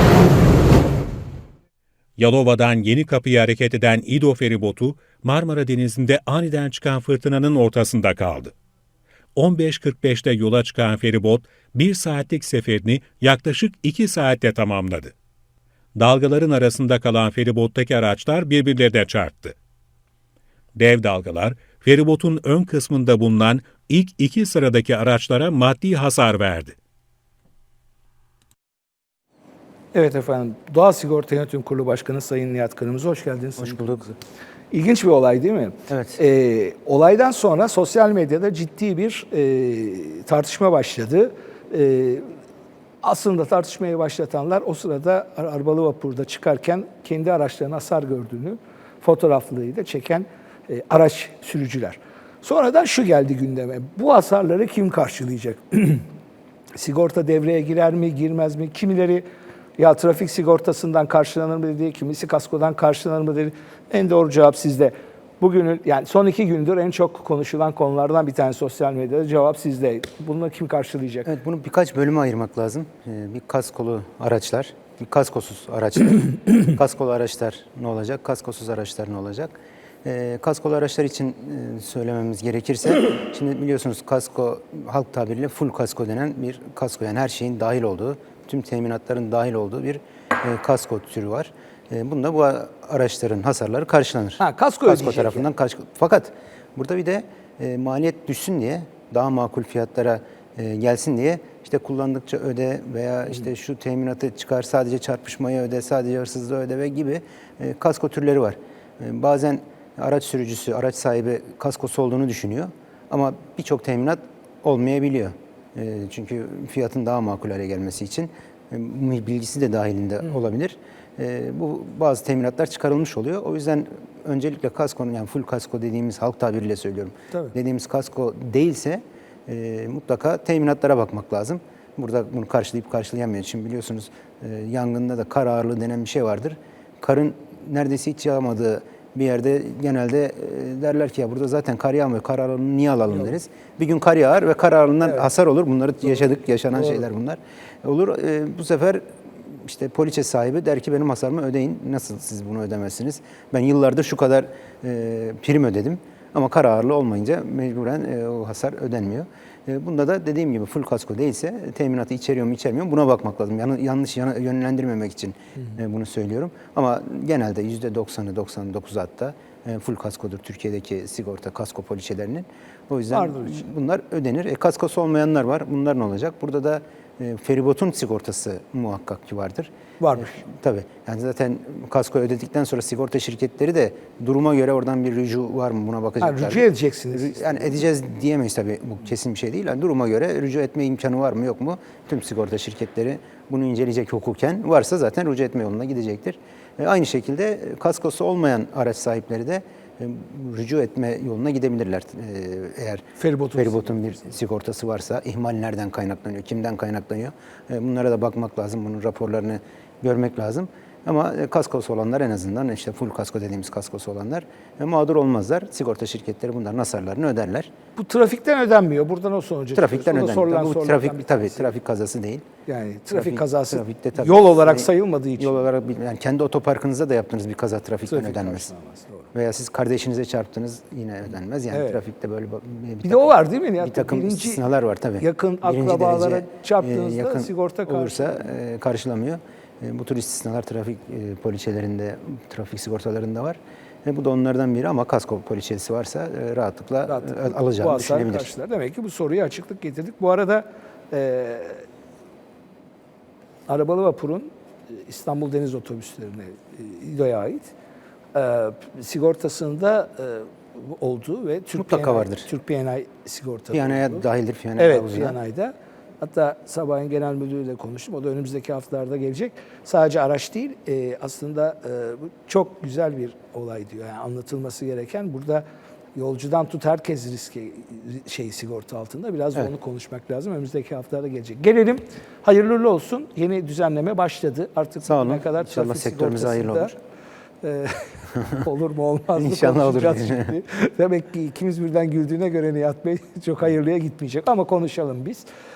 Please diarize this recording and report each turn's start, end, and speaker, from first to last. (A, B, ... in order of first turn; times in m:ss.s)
0:02.2-0:08.5 A
0:09.4-0:15.1 A
0:16.0-0:19.6 A
0:20.8-0:26.8 A
0:29.9-0:34.2 B
0:33.6-0:34.0 C
0:34.7-0:42.3 B
0:35.9-0:36.2 C
0:43.0-0:56.1 B
0:56.8-0:59.2 B
0:59.8-1:11.3 B
1:11.3-3:23.0 C
1:34.4-1:35.5 B
2:26.7-2:27.0 B
2:53.1-2:53.7 B
3:00.0-3:00.4 B
3:06.2-3:07.8 B
3:23.2-3:24.2 B
3:23.6-3:37.7 C
3:38.0-3:41.7 B
3:39.8-3:42.5 C
3:42.7-3:45.6 B
3:43.1-3:48.7 C
3:48.1-3:49.3 B
3:49.3-4:08.5 C
3:51.7-3:52.0 B
3:53.0-3:54.6 B
3:55.2-3:58.5 B
4:07.1-4:11.8 B
4:13.7-4:17.7 B
4:18.3-4:24.2 B
4:21.8-4:22.5 C
4:23.7-4:25.4 C
4:24.8-4:35.6 B
4:36.2-4:47.0 B
4:45.0-4:46.9 C
4:47.6-4:55.5 B
4:49.4-4:50.5 C